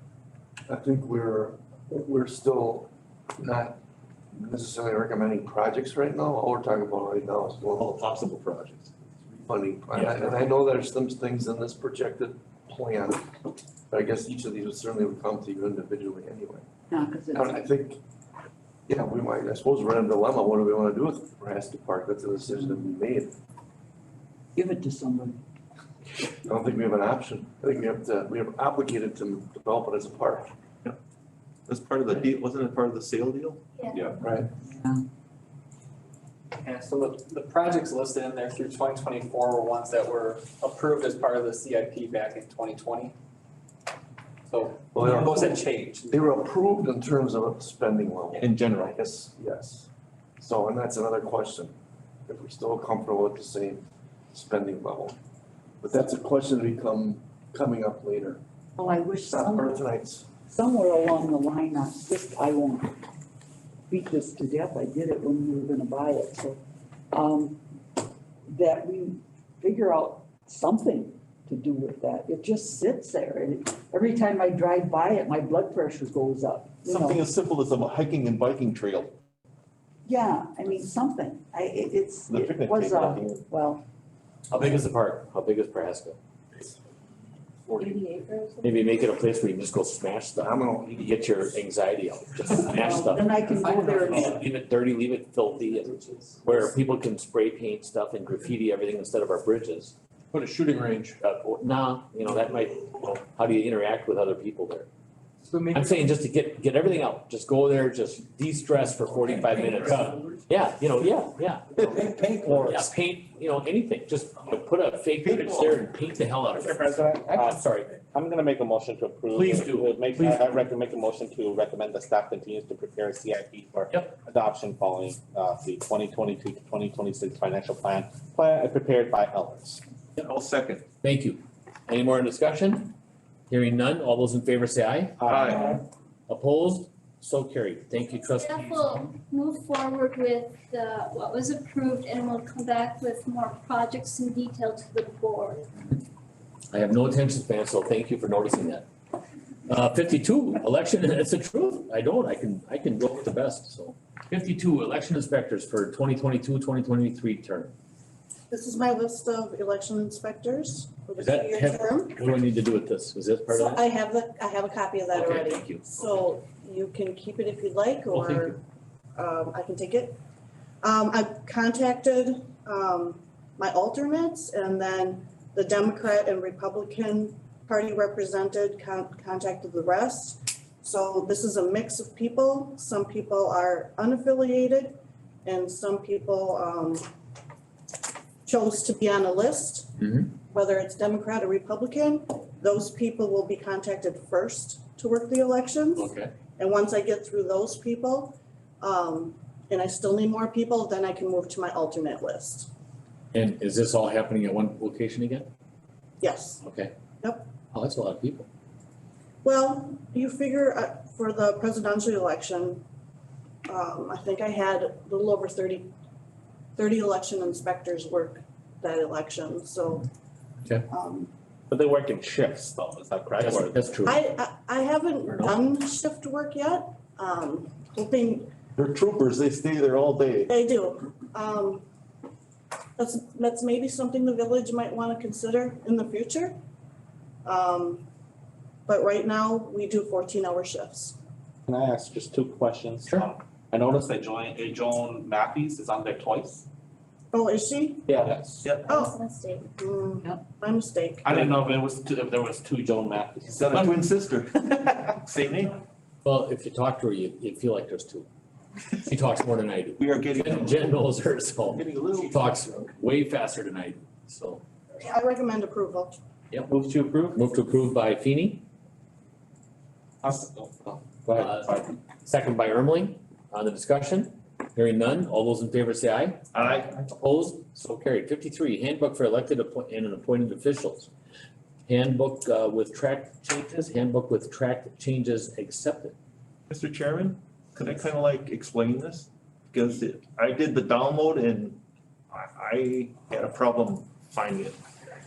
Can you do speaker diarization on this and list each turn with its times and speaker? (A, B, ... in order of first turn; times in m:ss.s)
0:00.7-0:02.9 A
0:03.4-0:03.8 A
0:04.3-0:07.9 A
0:07.8-0:09.0 B
0:09.3-0:13.4 A
0:13.9-0:16.6 A
0:16.9-0:17.6 C
0:17.3-0:18.0 A
0:18.9-0:23.3 A
0:24.5-0:25.4 C
0:26.4-0:30.5 A
0:31.7-0:34.1 B
0:33.8-0:34.1 D
0:34.2-0:34.5 A
0:34.7-0:35.0 C
0:36.6-0:43.2 E
0:44.5-0:46.1 E
0:44.9-0:49.9 A
0:48.4-0:49.0 B
0:50.4-0:51.7 A
0:52.3-0:55.2 A
0:55.8-0:58.4 A
0:58.8-0:59.8 C
0:59.2-1:00.2 A
1:00.5-1:03.0 C
1:03.9-1:07.6 C
1:08.5-1:17.2 C
1:16.8-1:19.1 B
1:20.0-1:23.8 C
1:22.3-1:23.4 B
1:24.5-1:26.2 F
1:27.8-1:29.0 D
1:28.6-1:33.3 F
1:30.4-1:31.2 A
1:32.7-1:34.4 C
1:34.1-1:39.9 F
1:41.2-1:44.9 F
1:45.7-1:51.9 F
1:51.9-1:52.5 G
1:52.6-1:57.8 F
1:56.6-2:09.8 G
1:59.4-2:00.3 B
2:10.2-2:10.8 B
2:11.0-2:12.9 F
2:13.5-2:15.2 F
2:15.2-2:15.8 G
2:15.2-2:15.7 B
2:16.3-2:19.1 F
2:18.1-2:25.7 D
2:26.7-2:28.8 F
2:29.7-2:37.7 F
2:38.5-2:42.2 H
2:41.2-2:43.8 F
2:43.5-2:48.6 H
2:45.1-2:45.8 F
2:48.1-2:48.6 F
2:49.2-2:50.2 H
2:50.8-3:07.0 H
3:08.4-3:22.7 H
3:10.0-3:10.3 F
3:15.9-3:16.3 F
3:23.3-3:25.5 F
3:26.2-3:26.6 H
3:26.6-3:26.9 F
3:27.2-3:27.5 H
3:27.7-3:28.4 F
3:29.4-3:32.8 H
3:33.6-3:35.9 H
3:36.8-3:40.1 H
3:40.9-3:41.3 H
3:41.7-3:43.8 G
3:43.4-3:44.2 F
3:44.0-3:48.5 H
3:45.2-3:45.6 F
3:48.8-3:50.5 B
3:50.5-3:51.8 H
3:53.0-3:56.5 H
3:57.4-3:58.0 H
3:58.9-4:01.2 H
4:01.7-4:06.6 G
4:07.3-4:08.2 H
4:08.1-4:08.6 G
4:08.8-4:09.7 D
4:08.9-4:09.1 H
4:09.8-4:11.3 H
4:11.2-4:13.9 G
4:13.5-4:15.8 B
4:16.2-4:18.3 F
4:19.0-4:24.6 F
4:20.0-4:21.0 B
4:21.7-4:22.5 B
4:25.0-4:26.2 H
4:26.7-4:27.3 G
4:27.3-4:28.6 F
4:31.3-4:41.1 F
4:31.3-4:31.8 G
4:36.5-4:37.0 B
4:41.9-4:46.1 F
4:46.7-4:51.8 B
4:52.3-4:54.8 B